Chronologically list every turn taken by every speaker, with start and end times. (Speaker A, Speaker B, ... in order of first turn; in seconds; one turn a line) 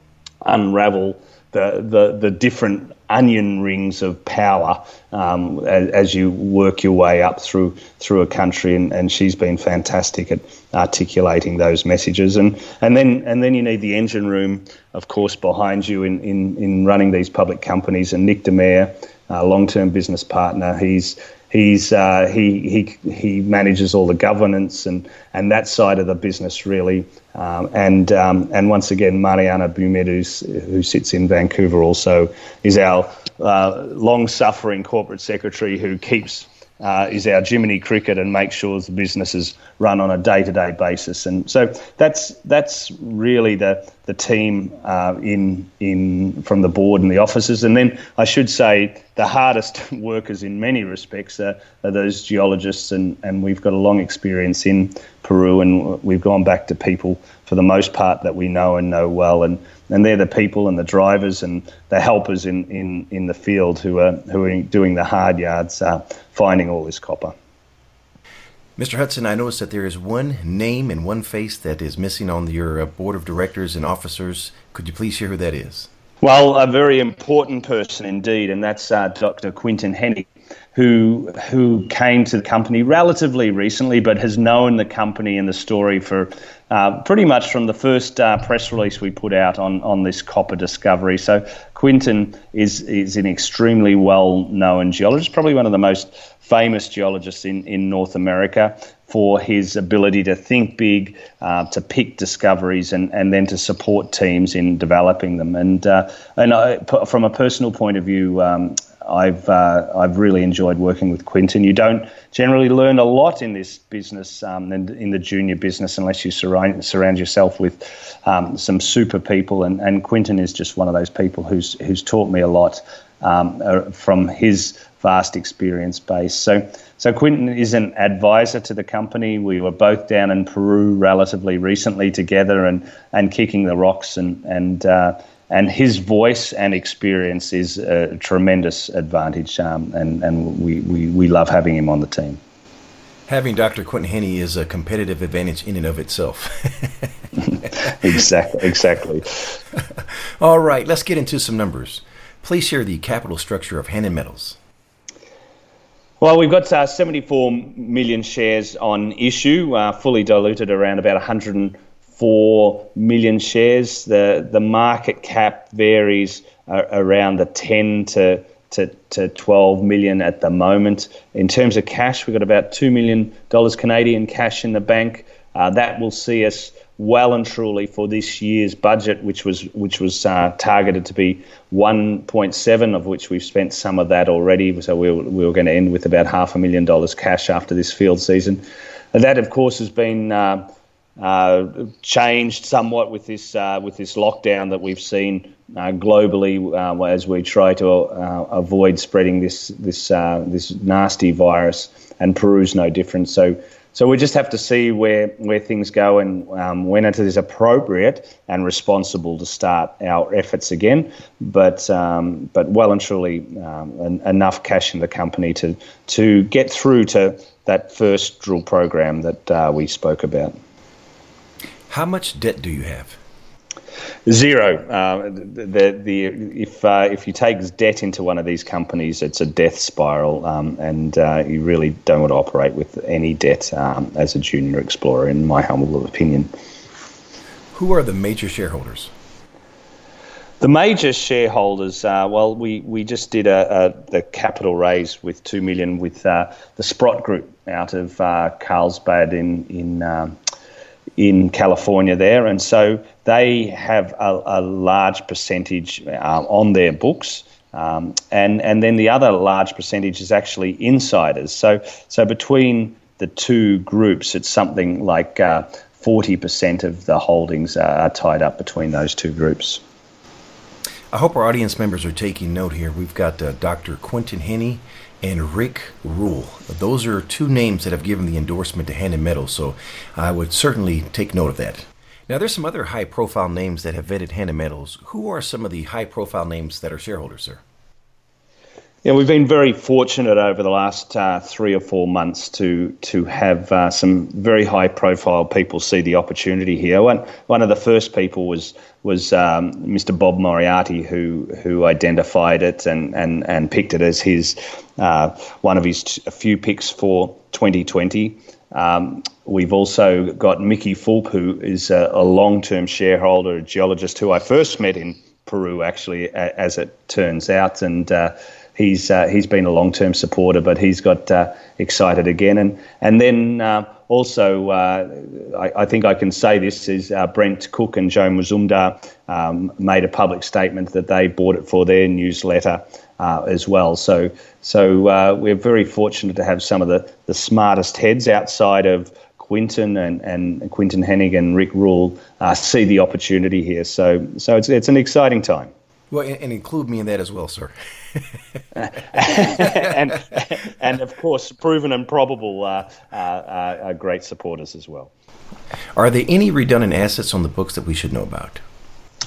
Speaker A: 0.4-67.3
Speaker B: 68.8-75.9
Speaker A: 76.2-142.4
Speaker B: 143.3-147.1
Speaker A: 147.8-149.3
Speaker B: 150.4-154.6
Speaker A: 156.2-220.6
Speaker B: 221.9-223.2
Speaker A: 224.3-236.5
Speaker B: 237.7-239.1
Speaker A: 240.6-250.4
Speaker A: 251.2-269.8
Speaker B: 271.1-287.6
Speaker A: 289.0-345.7
Speaker B: 346.1-348.4
Speaker A: 348.8-355.1
Speaker B: 355.9-358.6